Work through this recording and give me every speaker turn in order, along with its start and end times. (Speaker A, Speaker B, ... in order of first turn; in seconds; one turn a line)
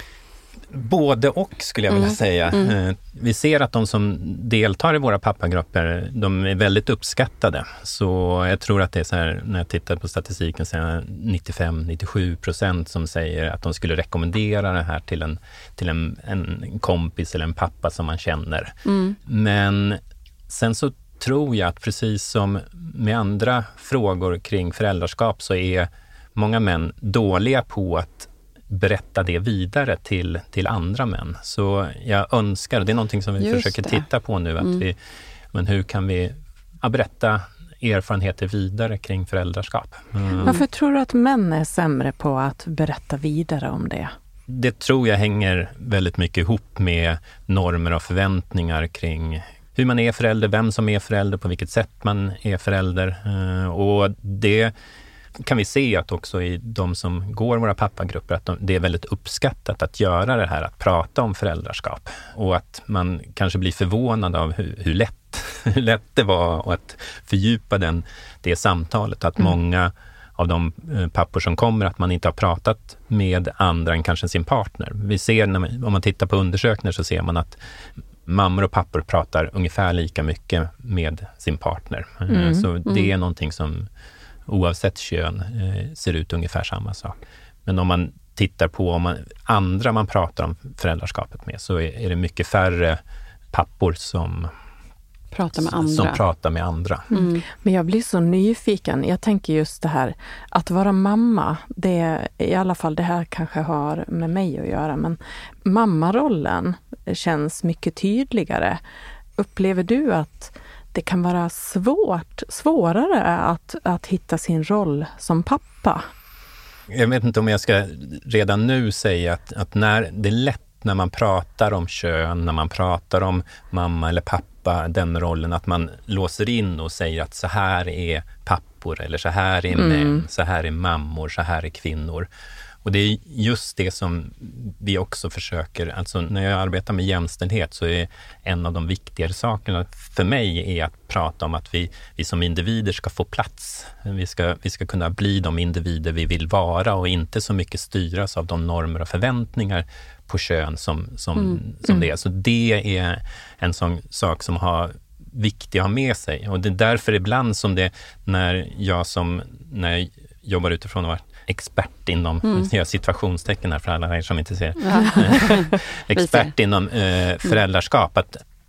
Speaker A: 0.7-18.7
Speaker B: 1.9-2.8
Speaker B: 18.9-19.2
Speaker A: 19.2-35.0
Speaker B: 33.4-34.0
Speaker A: 35.5-40.6
Speaker C: 40.4-44.1
Speaker A: 44.5-54.7
Speaker A: 55.4-77.6
Speaker A: 78.3-83.9
Speaker C: 82.3-82.7
Speaker A: 84.5-93.0
Speaker A: 93.5-94.5
Speaker B: 95.3-96.2
Speaker A: 95.5-97.1
Speaker B: 97.1-97.4
Speaker C: 97.1-108.8
Speaker C: 109.4-116.1
Speaker A: 116.9-132.3
Speaker C: 129.8-130.2
Speaker A: 132.8-168.4
Speaker B: 151.4-152.0
Speaker B: 164.8-166.5